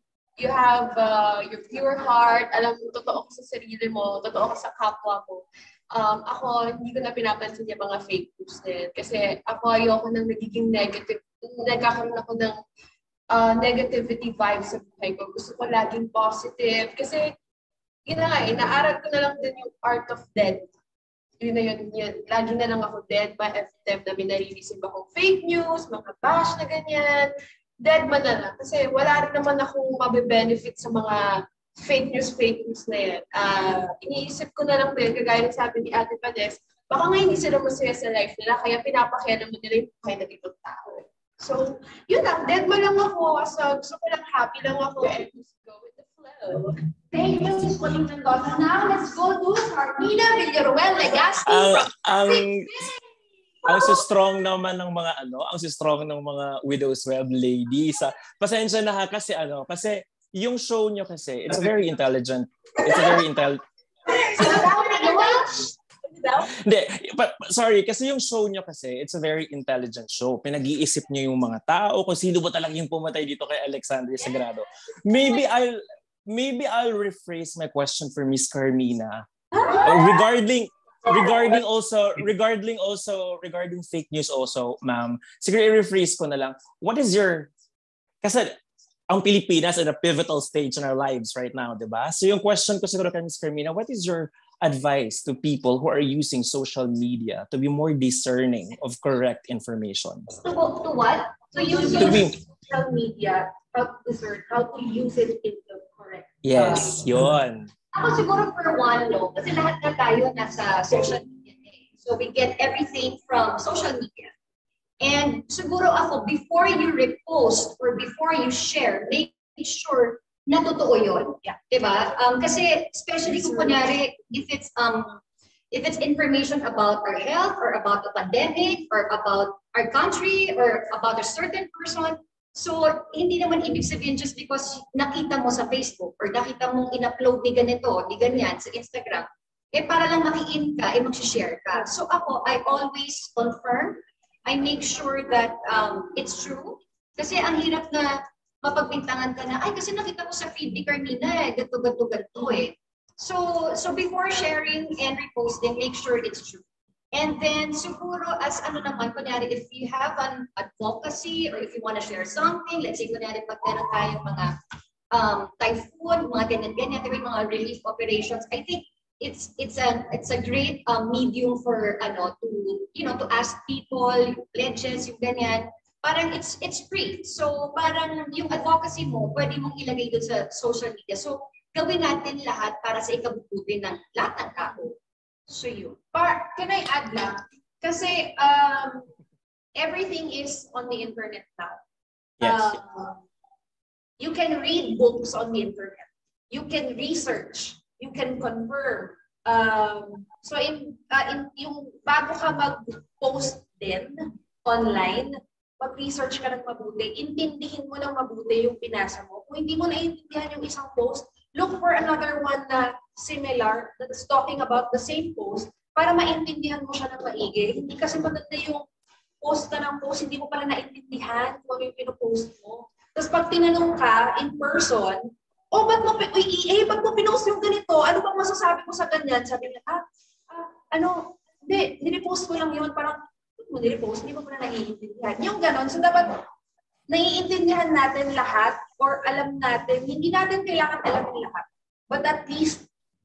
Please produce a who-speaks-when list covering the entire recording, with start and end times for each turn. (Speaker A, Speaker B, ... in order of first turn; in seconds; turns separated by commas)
Speaker A: 0.4-12.6, Speaker A: 13.3-17.3, Speaker A: 18.1-20.7, Speaker A: 21.4-41.1, Speaker B: 42.1-43.5, Speaker A: 42.1-46.7, Speaker B: 47.1-52.4, Speaker C: 51.5-52.7, Speaker C: 53.7-63.6, Speaker A: 64.1-66.5, Speaker B: 64.1-65.7, Speaker C: 66.7-79.3, Speaker C: 79.8-87.5, Speaker C: 88.2-88.6, Speaker C: 89.1-100.3, Speaker D: 100.3-102.3, Speaker B: 101.5-107.0, Speaker C: 102.0-102.3, Speaker C: 106.4-107.7, Speaker D: 107.9-114.3, Speaker D: 115.0-125.2, Speaker B: 123.3-123.8, Speaker D: 125.7-164.6, Speaker D: 165.1-185.0, Speaker B: 185.5-189.1, Speaker B: 189.8-191.8, Speaker B: 192.4-193.2, Speaker B: 194.2-218.8, Speaker B: 219.4-236.4, Speaker B: 237.1-242.9